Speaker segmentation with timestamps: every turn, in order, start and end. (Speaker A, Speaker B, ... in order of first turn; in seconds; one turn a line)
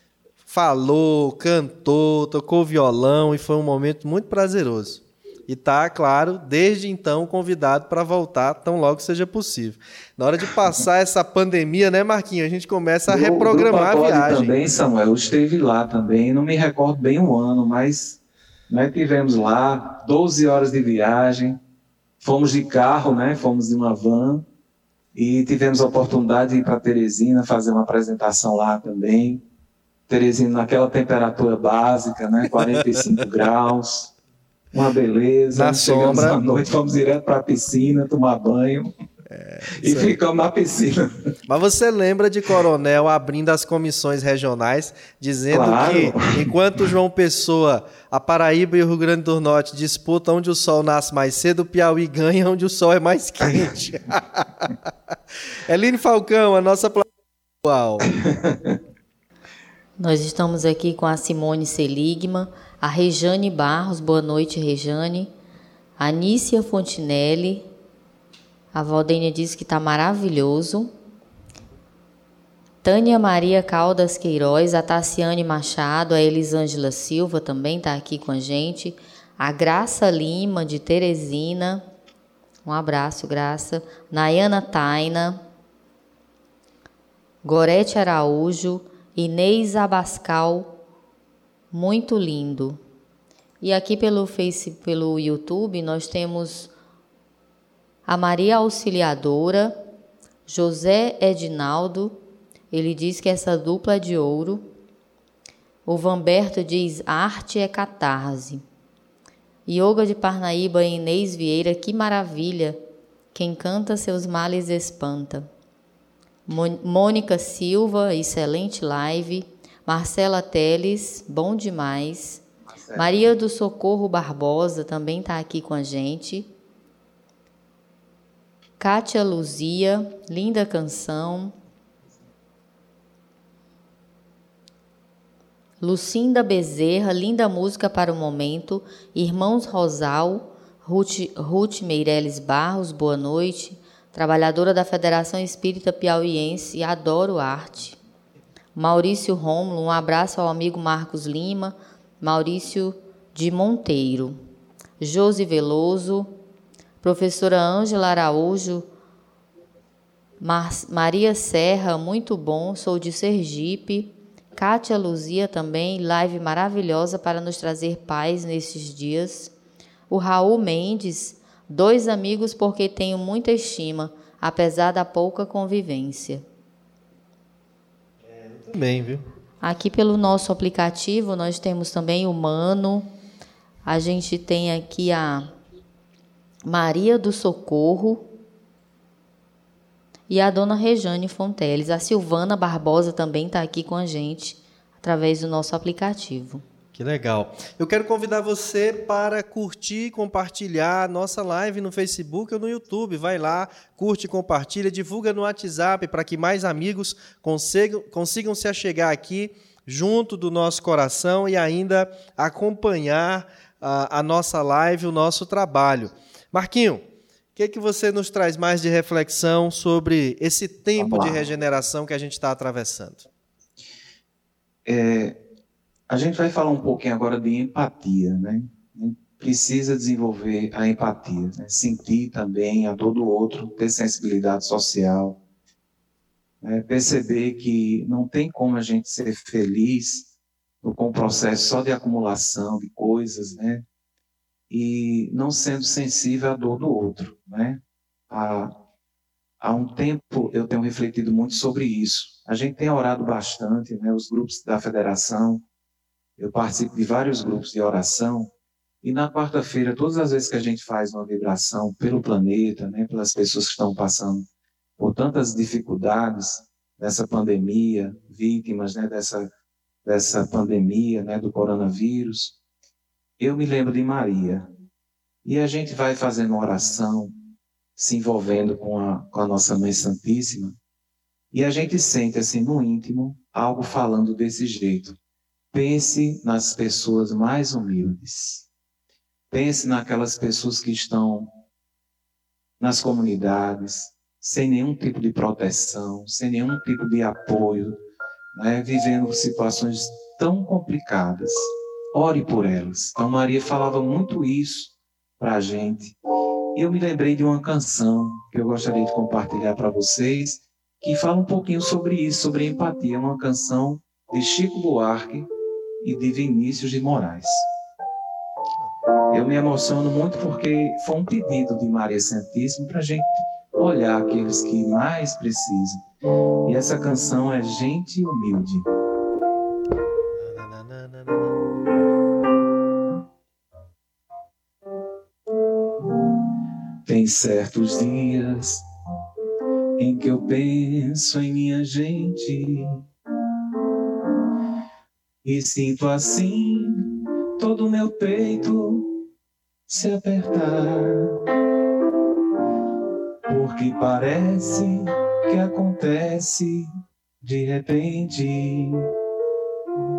Speaker A: 0.5-14.6
Speaker B: 13.1-18.2
Speaker B: 18.7-21.6
Speaker B: 22.2-24.4
Speaker B: 25.1-29.4
Speaker B: 30.1-34.1
Speaker A: 32.6-33.0
Speaker B: 34.7-38.9
Speaker A: 35.5-36.6
Speaker A: 39.3-40.1
Speaker B: 39.8-41.0
Speaker A: 41.5-54.9
Speaker B: 45.5-46.8
Speaker B: 53.4-53.7
Speaker A: 55.7-57.1
Speaker A: 57.6-58.1
Speaker B: 58.2-58.8
Speaker C: 60.0-65.3
Speaker C: 66.0-67.6
Speaker C: 68.7-70.9
Speaker C: 72.8-81.8
Speaker C: 82.6-85.4
Speaker C: 87.4-90.7
Speaker C: 91.7-92.8
Speaker C: 93.6-96.7
Speaker C: 98.1-99.8
Speaker C: 100.5-102.2
Speaker C: 102.7-104.6
Speaker C: 105.9-108.6
Speaker C: 109.7-112.8
Speaker C: 113.3-115.5
Speaker C: 116.5-122.4
Speaker B: 122.7-123.3
Speaker C: 123.0-126.5
Speaker C: 128.8-131.5
Speaker C: 135.8-148.0
Speaker C: 148.8-154.4
Speaker C: 155.0-156.3
Speaker C: 157.0-158.9
Speaker C: 160.4-169.5
Speaker C: 170.1-176.4
Speaker A: 178.2-179.2
Speaker C: 179.6-183.1
Speaker C: 183.8-185.5
Speaker C: 186.6-188.3
Speaker C: 190.3-196.6
Speaker A: 196.9-223.3
Speaker B: 221.0-221.4
Speaker B: 224.8-225.4
Speaker B: 226.1-235.4
Speaker B: 236.6-240.3
Speaker B: 240.8-243.8
Speaker B: 244.7-248.7
Speaker B: 249.6-255.6
Speaker B: 256.4-258.5
Speaker B: 259.0-269.5
Speaker B: 270.1-272.6
Speaker B: 273.4-274.7
Speaker B: 275.4-277.3
Speaker B: 278.0-280.8
Speaker B: 281.5-285.2
Speaker B: 285.7-288.7
Speaker B: 289.5-291.5
Speaker B: 292.8-298.0
Speaker B: 298.5-306.2
Speaker B: 306.8-315.5
Speaker B: 316.0-317.7
Speaker B: 319.3-326.0
Speaker B: 326.7-328.9
Speaker A: 330.4-331.7
Speaker B: 337.1-338.8
Speaker B: 340.0-343.1
Speaker B: 345.4-349.2
Speaker B: 349.9-351.4
Speaker B: 353.4-359.1